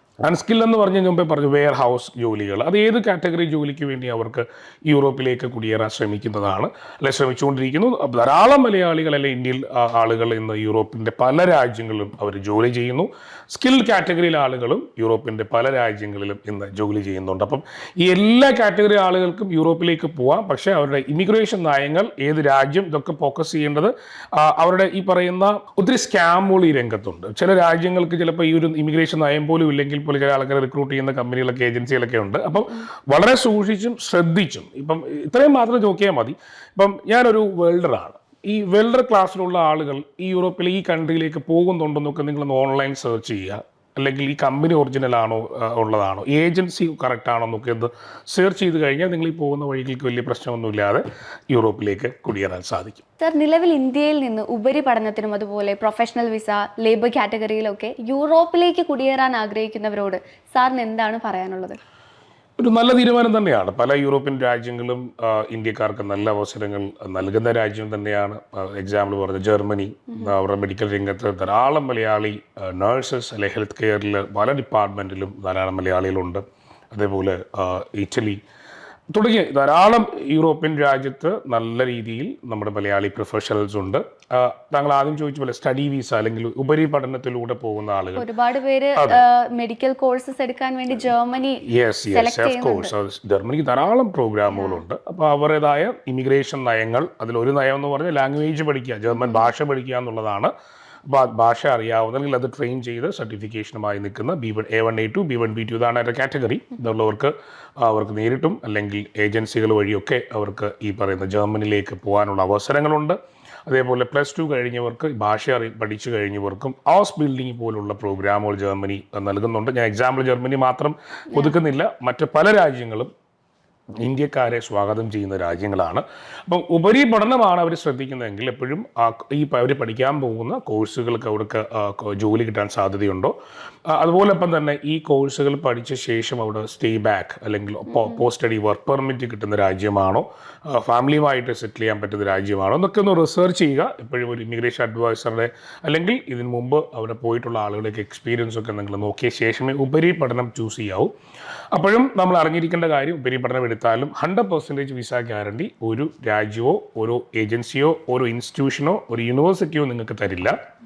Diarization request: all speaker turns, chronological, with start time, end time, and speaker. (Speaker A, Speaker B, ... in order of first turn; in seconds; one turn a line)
Speaker A: 0.2-53.0
Speaker B: 53.2-61.8
Speaker A: 62.6-78.4
Speaker A: 79.1-88.3
Speaker B: 88.1-92.9
Speaker A: 89.0-89.2
Speaker A: 91.6-100.5
Speaker B: 94.5-94.8
Speaker B: 99.1-99.5
Speaker A: 101.1-123.1
Speaker A: 124.0-133.3
Speaker A: 133.9-151.1
Speaker B: 137.9-138.2
Speaker A: 151.7-160.6